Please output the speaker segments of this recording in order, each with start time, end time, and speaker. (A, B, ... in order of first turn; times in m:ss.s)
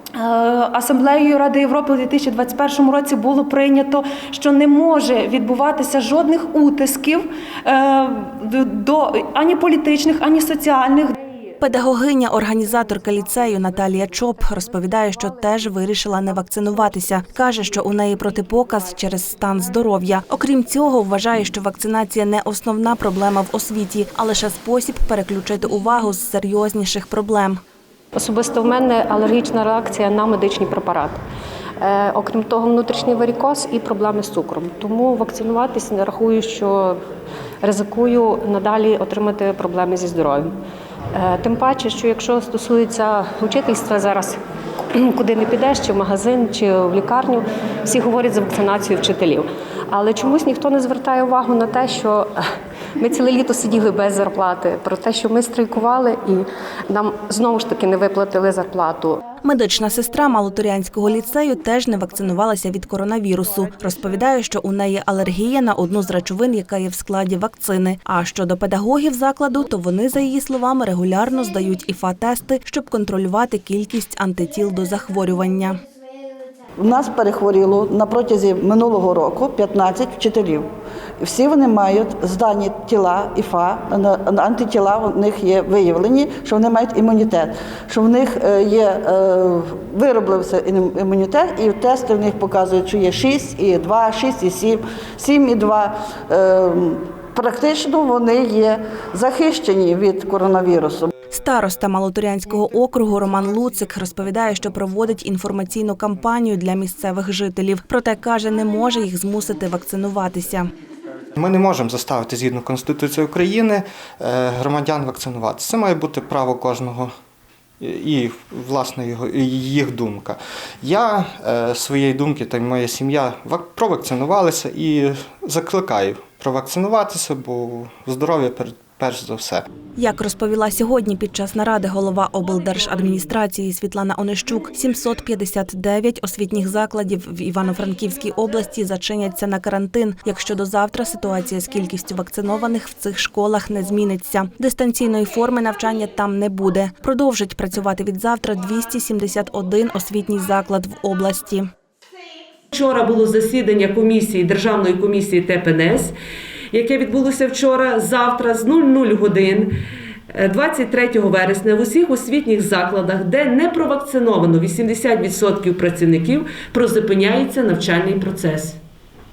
0:00.2-0:11.2 A
0:11.6-0:27.6 B
0:28.2-0:31.2 C
0:31.8-0:37.0 C
0:37.6-0:40.5 C
0:41.1-0:44.4 C
0:44.9-0:52.4 C
0:53.0-0:59.2 C
0:59.4-1:15.8 B
1:16.8-1:20.7 D
1:21.2-1:41.1 D
1:41.3-1:50.7 B
1:51.4-1:57.1 E
1:57.8-2:09.6 E
2:10.0-2:31.7 B
2:32.7-2:36.1 F
2:36.7-2:39.7 F
2:40.3-2:48.8 F